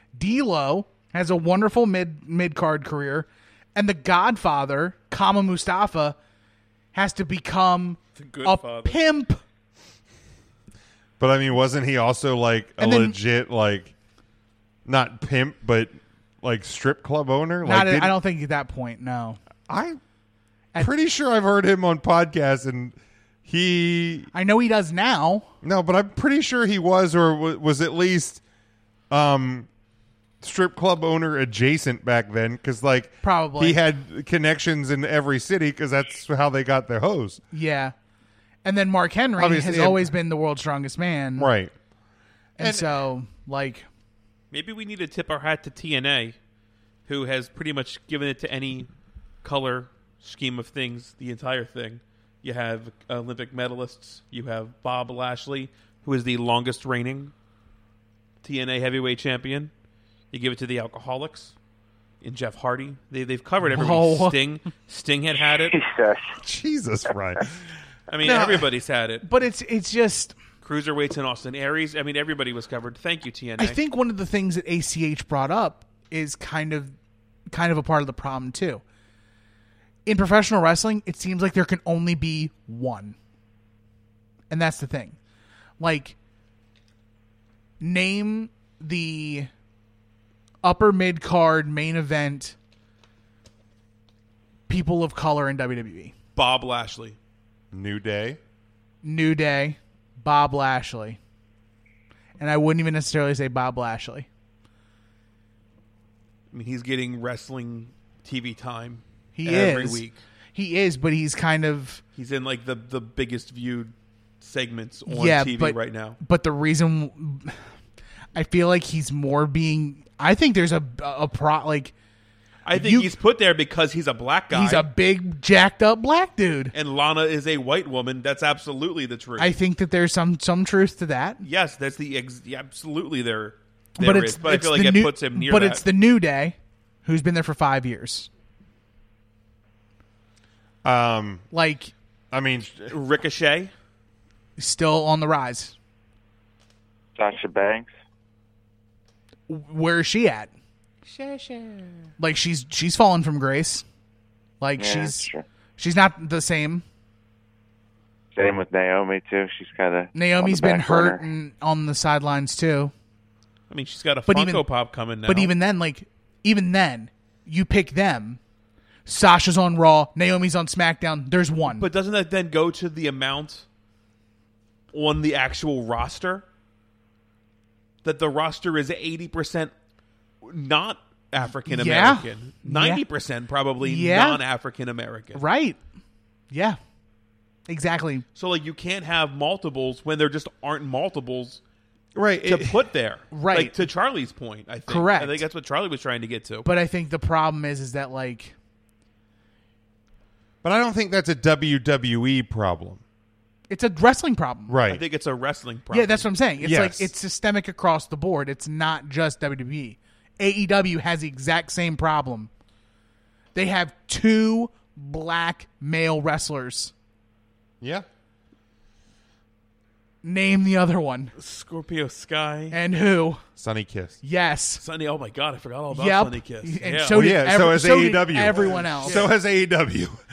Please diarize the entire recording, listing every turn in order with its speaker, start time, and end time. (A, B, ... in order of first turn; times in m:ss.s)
0:00.1-0:06.2 A
0:06.9-0:09.4 A
0:08.2-0:09.0 B
0:11.2-0:13.9 C
0:12.8-0:13.2 A
0:14.8-0:18.1 C
0:17.6-0:19.4 A
0:19.7-0:20.0 C
0:20.8-0:24.3 C
0:24.3-0:25.5 A
0:25.6-0:28.4 C
0:29.1-0:29.7 C
0:30.4-0:37.4 C
0:33.2-0:33.8 A
0:37.5-0:37.9 A
0:38.6-0:41.5 A
0:39.4-0:40.1 C
0:41.4-0:41.7 C
0:42.6-0:43.0 C
0:42.6-0:43.8 A
0:44.5-0:46.4 B
0:47.1-0:48.9 B
0:49.4-0:57.3 B
0:58.4-0:59.7 B
1:00.3-1:01.5 B
1:02.2-1:05.8 B
1:03.6-1:04.4 A
1:05.7-1:06.3 D
1:06.4-1:07.6 C
1:08.1-1:09.2 B
1:08.2-1:08.7 C
1:09.2-1:10.4 A
1:10.6-1:13.8 B
1:13.6-1:16.9 A
1:17.5-1:18.8 A
1:20.0-1:23.2 A
1:24.5-1:25.2 A
1:25.8-1:26.2 A
1:27.8-1:29.5 A
1:30.6-1:32.6 A
1:34.7-1:36.1 A
1:36.4-1:37.2 B
1:37.7-1:38.4 C
1:39.0-1:41.2 A
1:42.4-1:44.3 A
1:46.5-1:50.2 B
1:49.3-1:52.0 A
1:52.2-1:56.2 B
1:55.1-1:57.6 A
1:58.3-2:01.9 A
2:02.6-2:04.9 B
2:02.7-2:03.1 A
2:04.5-2:06.7 A
2:06.7-2:09.5 B
2:09.4-2:11.4 A
2:11.4-2:15.8 B
2:14.0-2:18.3 A
2:20.8-2:21.4 C
2:21.5-2:21.9 A
2:22.3-2:22.9 C
2:22.9-2:23.7 B
2:24.6-2:25.8 A
2:27.2-2:27.9 D
2:29.5-2:30.5 A
2:31.1-2:32.0 B
2:32.2-2:33.8 A
2:34.6-2:36.8 A
2:34.8-2:35.4 D
2:38.3-2:41.2 D
2:40.1-2:42.9 A
2:43.7-2:45.5 B
2:44.2-2:44.6 A
2:45.2-2:48.4 A
2:49.0-2:51.9 A
2:51.7-2:53.6 B
2:54.9-2:56.4 B
2:58.0-2:59.7 B
3:00.4-3:05.4 B
3:01.7-3:03.0 A
3:03.8-3:04.4 A
3:05.3-3:05.8 A
3:06.5-3:06.8 A
3:07.7-3:08.2 A
3:08.4-3:11.6 B
3:12.1-3:12.8 C
3:12.4-3:16.7 B
3:13.3-3:13.8 A
3:14.9-3:15.4 A
3:16.6-3:18.5 A
3:20.6-3:23.0 C
3:23.7-3:24.8 A
3:24.7-3:25.0 C
3:24.9-3:26.3 B
3:25.9-3:32.5 A
3:26.6-3:27.1 C
3:33.5-3:36.9 A
3:37.8-3:38.0 C
3:40.2-3:41.3 A
3:41.4-3:42.8 B
3:42.7-3:43.4 A
3:43.6-3:44.2 C
3:44.2-3:44.8 A
3:44.8-3:47.2 B
3:45.9-3:49.2 A
3:47.1-3:50.2 C
3:48.5-3:49.3 B